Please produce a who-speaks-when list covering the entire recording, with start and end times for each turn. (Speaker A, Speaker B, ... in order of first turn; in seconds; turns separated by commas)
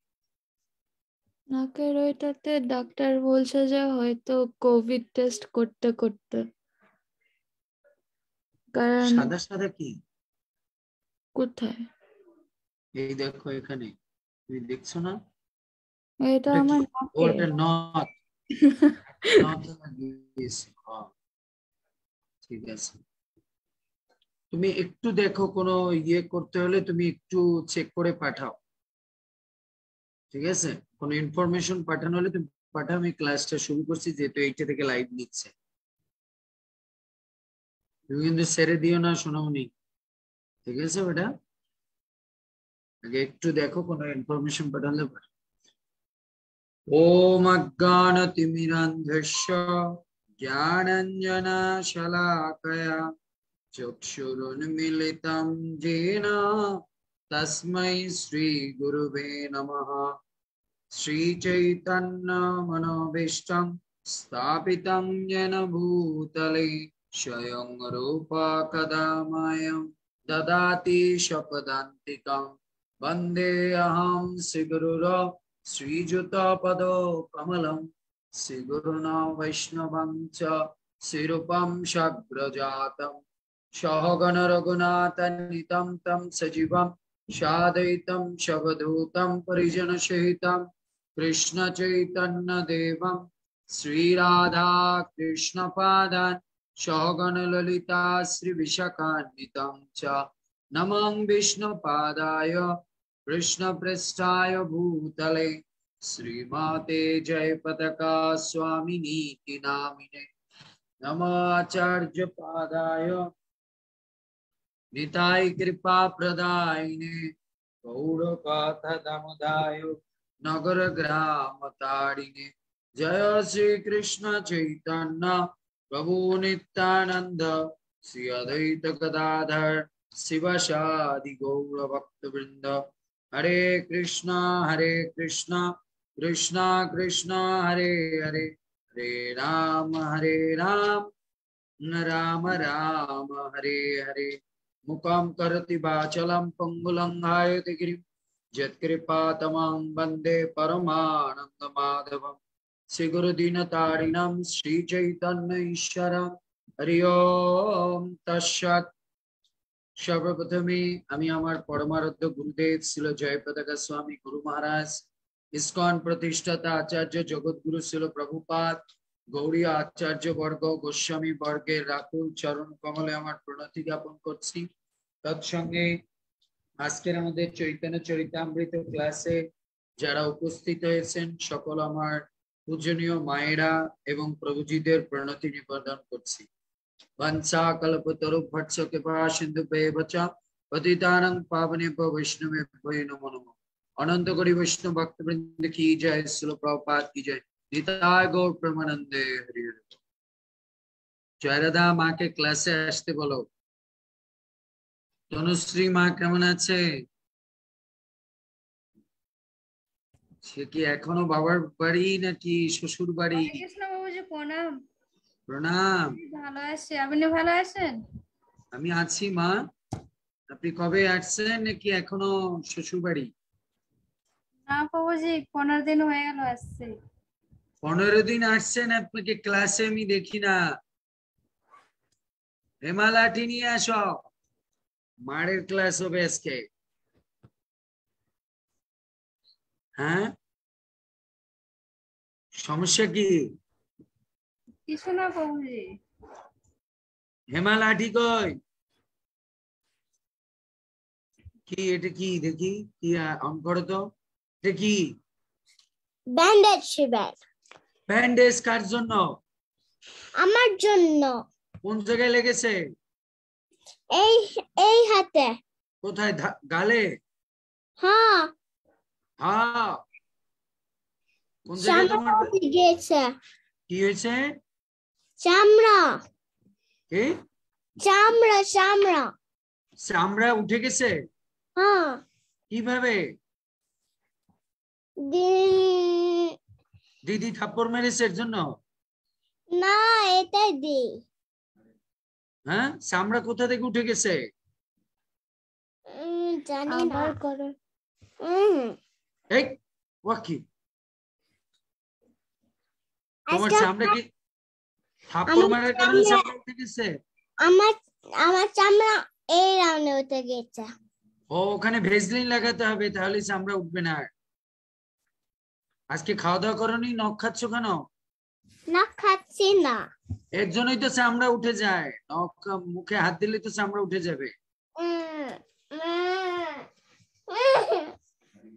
Speaker A: 1.6-6.4, Speaker A: 8.8-9.3, Speaker B: 9.0-10.0, Speaker A: 11.4-11.8, Speaker B: 13.0-14.0, Speaker B: 14.5-15.2, Speaker A: 16.3-17.5, Speaker B: 16.5-18.1, Speaker B: 19.3-21.1, Speaker B: 22.4-23.0, Speaker B: 24.5-28.6, Speaker B: 30.3-35.5, Speaker B: 38.1-39.7, Speaker B: 40.7-41.3, Speaker B: 43.0-45.3, Speaker B: 46.9-49.8, Speaker B: 50.4-53.1, Speaker B: 53.7-56.6, Speaker B: 57.3-60.1, Speaker B: 60.9-83.2, Speaker B: 83.8-90.7, Speaker B: 91.2-100.2, Speaker B: 100.8-102.7, Speaker B: 103.3-110.3, Speaker B: 111.0-113.2, Speaker B: 114.9-117.3, Speaker B: 117.8-125.4, Speaker B: 125.9-132.8, Speaker B: 133.3-135.7, Speaker B: 136.2-141.1, Speaker B: 141.8-144.3, Speaker B: 144.9-148.0, Speaker B: 148.6-152.4, Speaker B: 152.9-158.9, Speaker B: 160.0-168.8, Speaker B: 169.3-174.7, Speaker B: 175.2-175.9, Speaker B: 176.8-179.4, Speaker B: 180.0-186.5, Speaker B: 187.2-200.0, Speaker B: 201.4-203.5, Speaker B: 205.3-206.8, Speaker B: 210.4-213.6, Speaker C: 213.3-214.7, Speaker B: 215.5-216.2, Speaker C: 216.2-218.0, Speaker B: 218.7-219.6, Speaker B: 220.5-223.3, Speaker C: 224.7-226.9, Speaker B: 227.8-230.6, Speaker B: 232.8-234.2, Speaker B: 235.3-236.7, Speaker B: 240.0-240.3, Speaker B: 242.6-243.4, Speaker C: 244.9-245.9, Speaker B: 247.5-248.6, Speaker B: 251.7-254.1, Speaker B: 254.6-255.1, Speaker D: 256.3-257.4, Speaker B: 258.1-259.4, Speaker D: 260.4-261.4, Speaker B: 261.8-262.8, Speaker D: 264.2-265.6, Speaker B: 266.0-267.1, Speaker D: 268.0-268.5, Speaker B: 269.4-270.0, Speaker B: 271.7-272.5, Speaker D: 271.8-273.3, Speaker B: 273.9-274.5, Speaker D: 275.4-276.1, Speaker D: 278.0-279.3, Speaker B: 280.0-281.1, Speaker D: 281.8-282.2, Speaker B: 282.7-283.2, Speaker D: 285.3-286.6, Speaker B: 287.3-288.7, Speaker D: 289.8-291.1, Speaker B: 292.7-294.4, Speaker D: 296.1-297.4, Speaker A: 296.9-297.7, Speaker D: 298.4-299.0, Speaker B: 299.5-300.6, Speaker D: 303.5-304.1, Speaker B: 303.5-304.3, Speaker B: 305.3-307.1, Speaker D: 305.5-306.4, Speaker D: 307.7-310.9, Speaker B: 311.5-314.3, Speaker B: 316.1-318.1, Speaker D: 318.9-320.0, Speaker B: 320.6-324.6, Speaker D: 325.0-326.9, Speaker D: 327.5-328.1